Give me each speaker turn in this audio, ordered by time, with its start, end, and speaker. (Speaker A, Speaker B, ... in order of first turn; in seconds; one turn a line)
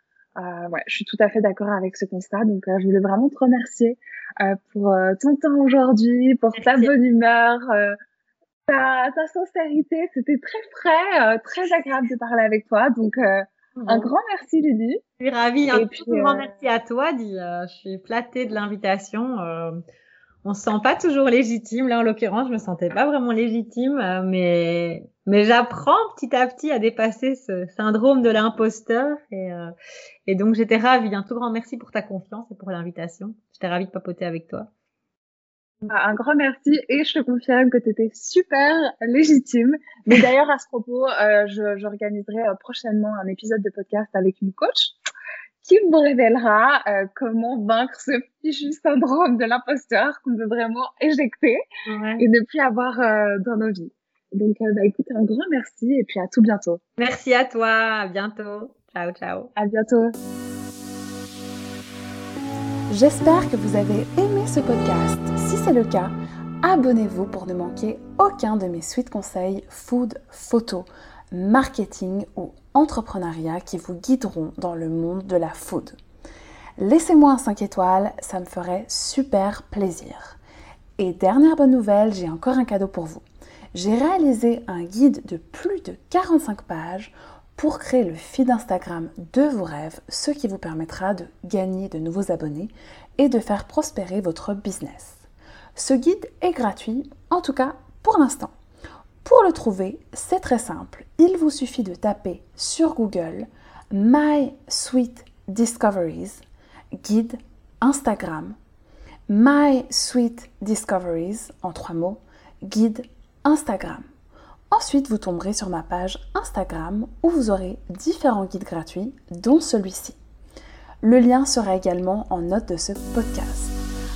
Speaker A: 0.4-8.0
Speaker B: 6.5-6.9
Speaker A: 8.7-15.0
Speaker B: 13.8-14.1
Speaker B: 15.2-19.8
Speaker A: 15.7-16.5
Speaker B: 20.4-29.7
Speaker B: 30.3-34.7
Speaker A: 35.8-45.0
Speaker A: 45.6-51.6
Speaker B: 51.9-52.2
Speaker A: 52.2-56.8
Speaker B: 57.0-59.5
Speaker A: 59.6-60.1
Speaker C: 62.9-76.0
Speaker C: 76.8-80.4
Speaker C: 81.0-95.2
Speaker C: 95.8-98.5
Speaker C: 99.2-106.4
Speaker C: 107.0-108.6
Speaker C: 109.3-114.0
Speaker C: 114.7-120.2
Speaker C: 121.0-123.8